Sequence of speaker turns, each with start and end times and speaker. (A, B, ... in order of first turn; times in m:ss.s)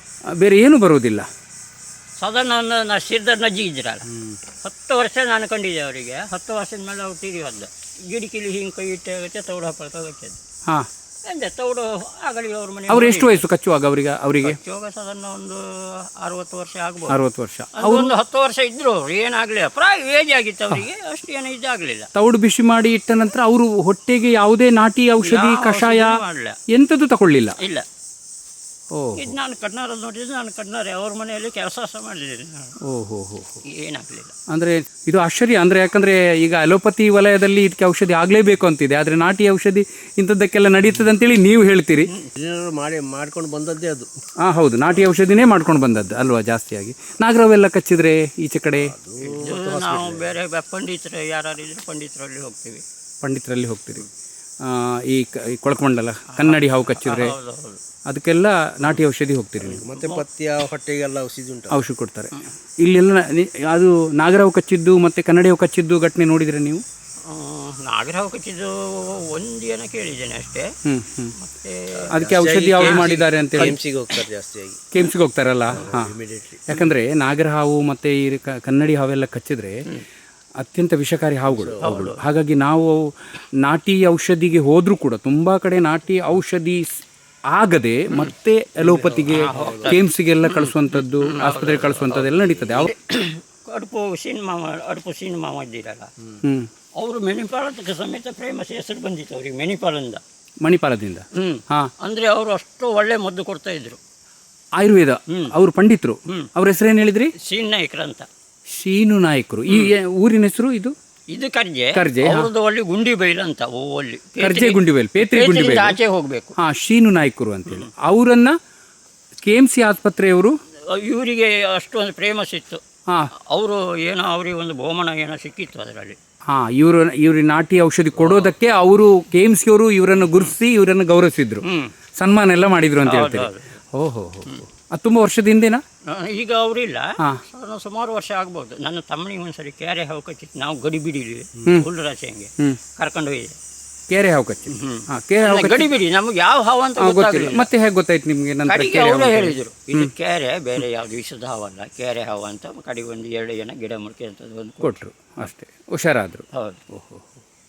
0:00.4-0:01.2 A
0:02.2-0:10.4 B
0:11.2-0:13.4 B
0:12.9-0:14.6 A
0:14.4-0:17.2 B
0:17.1-0:18.1 A
0:17.7-0:22.1 B
0:22.1-0:26.2 A
0:25.2-0:26.6 B
0:26.7-0:27.6 A
0:27.6-0:27.8 B
0:28.9-0:29.3 A
0:29.1-0:32.7 B
0:32.8-0:33.6 A
0:33.6-0:34.3 B
0:34.5-0:42.1 A
0:42.4-0:44.1 C
0:44.4-0:48.9 A
0:48.8-0:50.3 C
0:49.2-0:52.8 B
0:53.2-0:54.1 A
0:54.6-0:57.3 A
0:56.3-0:57.8 B
0:58.1-0:59.8 A
0:59.6-1:01.8 C
0:59.9-1:00.2 B
1:01.7-1:06.8 A
1:07.2-1:10.7 B
1:10.8-1:11.3 A
1:11.4-1:13.7 B
1:12.1-1:14.8 C
1:12.1-1:13.8 A
1:14.9-1:16.1 A
1:15.7-1:16.8 C
1:16.7-1:19.8 A
1:20.6-1:26.8 A
1:21.5-1:22.0 C
1:21.8-1:22.2 B
1:27.5-1:32.9 A
1:28.8-1:30.0 C
1:29.3-1:36.1 B
1:32.4-1:32.8 C
1:36.4-1:36.7 A
1:37.0-1:40.2 B
1:40.6-1:41.9 A
1:41.3-1:44.0 B
1:44.8-1:47.3 A
1:47.4-1:48.3 B
1:48.8-1:50.9 A
1:51.3-1:56.6 B
1:51.9-1:52.5 A
1:54.4-1:56.0 A
1:56.6-1:58.6 A
1:59.4-2:00.5 A
2:00.9-2:02.8 B
2:03.5-2:06.2 B
2:06.5-2:11.6 A
2:08.1-2:08.5 B
2:10.1-2:10.5 B
2:11.6-2:11.9 B
2:12.2-2:15.8 A
2:13.0-2:13.7 B
2:16.1-2:23.6 B
2:24.1-2:25.9 A
2:24.7-2:27.7 B
2:27.0-2:30.1 A
2:28.6-2:35.0 B
2:34.8-2:37.2 A
2:36.5-2:36.8 B